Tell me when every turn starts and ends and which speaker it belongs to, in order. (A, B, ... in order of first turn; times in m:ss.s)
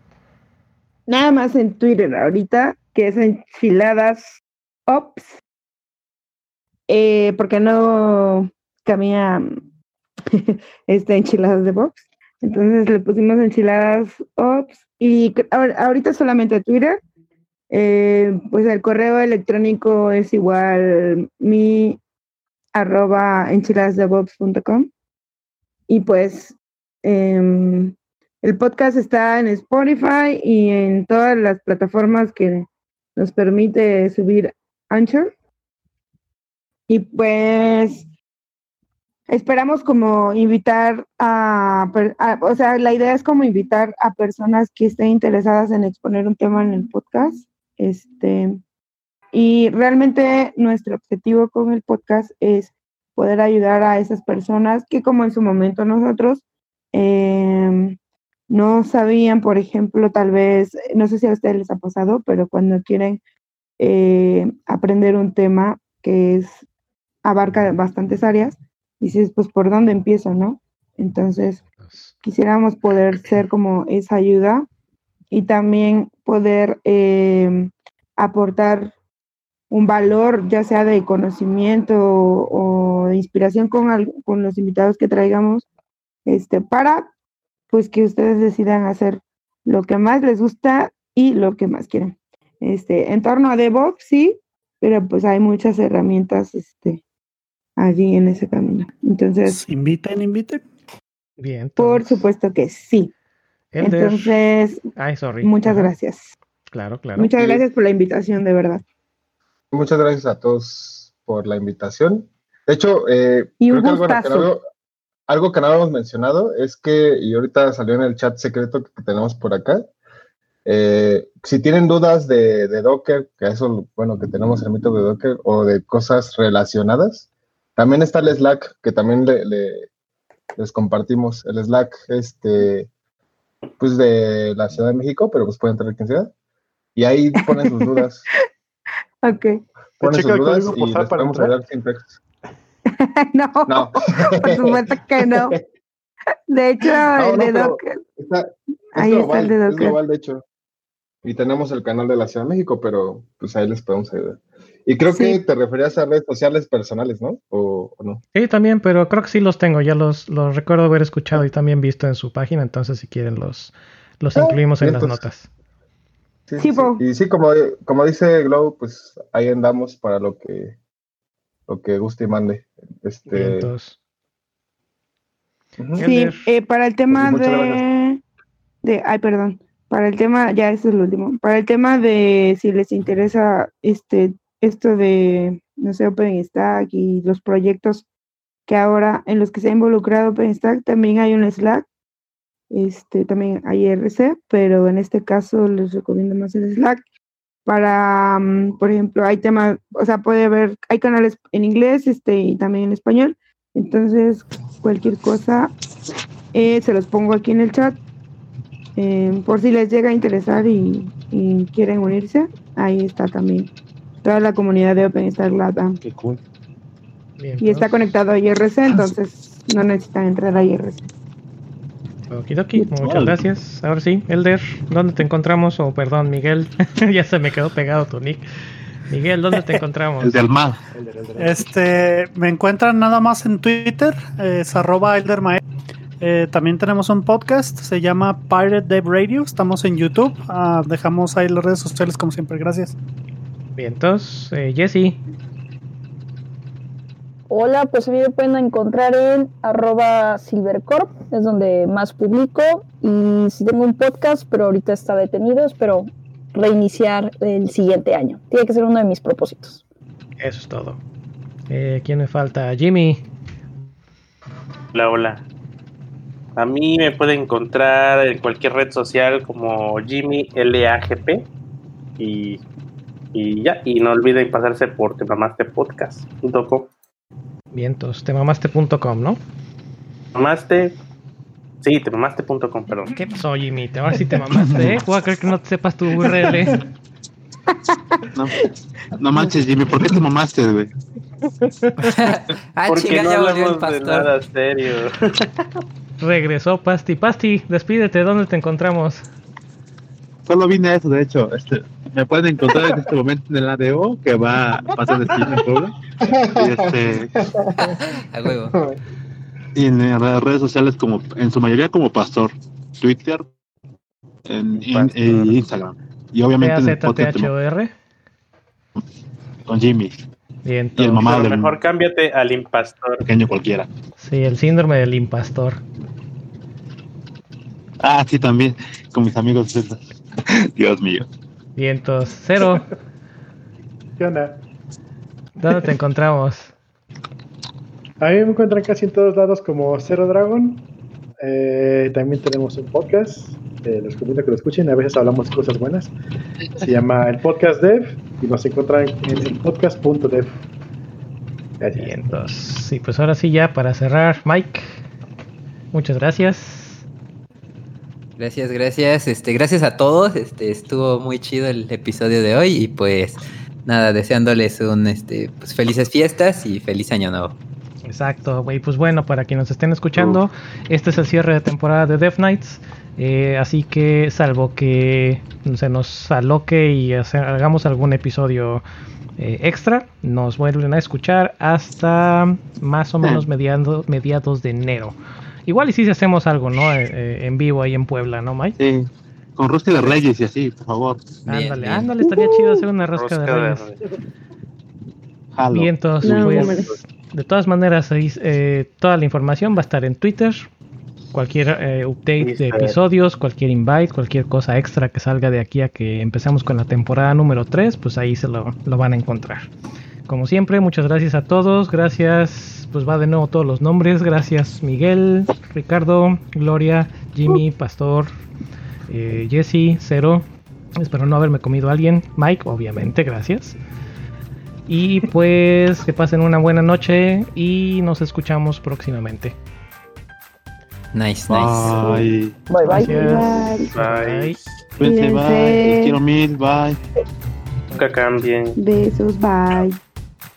0:01.1-0:05.4 A
0:06.9-0:09.5 A
0:10.3-0:17.0 A
0:17.7-0:22.0 A
0:22.7-0:24.9 A
0:25.9-0:35.3 A
0:36.9-0:38.0 A
0:39.3-0:48.6 A
0:49.3-0:58.0 A
0:58.5-1:03.2 A
1:03.8-1:06.6 A
1:07.2-1:11.6 A
1:11.8-1:12.1 B
1:12.2-1:14.6 A
1:15.3-1:18.9 A
1:19.7-1:25.7 A
1:26.2-1:27.1 A
1:27.7-1:37.0 A
1:37.8-1:39.6 A
1:39.4-1:40.6 C
1:41.4-1:42.2 B
1:41.8-1:43.1 A
1:43.7-1:44.4 B
1:43.8-1:44.8 A
1:45.0-1:45.9 B
1:45.4-1:46.3 A
1:46.7-1:47.3 B
1:47.2-1:48.8 A
1:47.4-1:47.6 D
1:49.7-1:54.6 D
1:53.6-1:54.5 A
1:55.3-1:59.8 D
2:00.6-2:09.9 D
2:10.6-2:12.9 D
2:13.8-2:16.3 D
2:16.9-2:18.2 D
2:17.4-2:18.0 A
2:19.2-2:19.6 A
2:20.0-2:21.6 E
2:20.0-2:22.2 D
2:22.9-2:25.6 A
2:23.6-2:25.6 D
2:26.5-2:28.0 A
2:27.1-2:30.4 D
2:28.9-2:30.0 A
2:31.2-2:38.2 D
2:35.1-2:35.4 A
2:38.3-2:45.5 B
2:44.4-2:45.2 D
2:46.5-2:50.8 D
2:46.6-2:47.0 A
2:51.7-2:53.7 D
2:53.3-2:54.0 B
2:55.8-2:56.1 D
2:56.0-2:56.5 B
2:56.0-2:58.2 A
2:57.1-2:57.8 D
2:58.8-3:08.1 A
3:08.7-3:11.8 A
3:12.7-3:17.0 A
3:17.6-3:25.7 A
3:26.5-3:28.0 A
3:29.0-3:33.7 A
3:34.2-3:36.0 A
3:36.0-3:36.4 F
3:37.4-3:37.9 B
3:37.6-3:41.1 A
3:42.3-3:48.4 B
3:43.0-3:43.4 F
3:49.1-3:50.4 B
3:50.2-3:50.8 F
3:50.9-3:51.7 E
3:51.4-3:55.6 C
3:56.2-4:03.0 C
4:03.8-4:05.2 B
4:07.5-4:19.8 G
4:20.4-4:21.0 B
4:21.7-4:23.2 B
4:24.9-4:25.4 H
4:26.6-4:31.5 H
4:32.2-4:32.6 H
4:33.3-4:36.9 H
4:37.7-4:39.4 B
4:40.3-4:40.9 H
4:41.8-4:43.2 H
4:43.1-4:46.8 B
4:44.6-4:44.9 F
4:47.7-4:48.2 A
4:48.3-4:48.6 F
4:49.1-4:50.9 F
4:51.6-4:52.1 B
4:52.0-4:54.3 I
4:52.9-4:55.5 H
4:56.2-4:59.2 B
5:00.5-5:06.0 F
5:06.2-5:08.0 D
5:06.5-5:07.4 F
5:07.8-5:08.8 I
5:09.7-5:13.4 F
5:14.5-5:17.5 F
5:14.9-5:15.6 B
5:16.6-5:17.9 B
5:19.7-5:20.1 F
5:20.6-5:21.3 B
5:21.0-5:21.8 F
5:21.2-5:23.2 H
5:23.2-5:23.9 F
5:24.2-5:25.8 B
5:28.0-5:31.2 F
5:31.8-5:32.9 B
5:34.2-5:34.6 E
5:35.6-5:36.7 B
5:38.2-5:40.9 E
5:41.4-5:46.1 E
5:46.8-5:50.5 E
5:51.8-5:52.2 E
5:52.0-5:55.0 B
5:55.9-5:57.0 B
5:58.4-6:07.6 I
6:08.0-6:18.8 B
6:19.4-6:25.2 B
6:25.7-6:28.8 B
6:28.8-6:31.4 F
6:31.5-6:32.1 I
6:31.5-6:33.9 B
6:33.2-6:34.0 H
6:35.6-6:37.0 F
6:35.7-6:40.7 B
6:36.2-6:36.9 A
6:41.3-6:49.7 B
6:42.4-6:42.8 H
6:42.5-6:42.9 F
6:50.3-6:58.3 B
6:59.1-7:00.4 B
7:01.0-7:03.8 B
7:04.9-7:09.5 B
7:11.1-7:12.2 I
7:11.5-7:12.6 F
7:12.7-7:13.8 G
7:12.8-7:14.6 B
7:12.9-7:14.0 A
7:13.9-7:14.5 H
7:15.0-7:17.0 F
7:15.0-7:16.2 A
7:17.9-7:18.8 H
7:18.8-7:20.0 A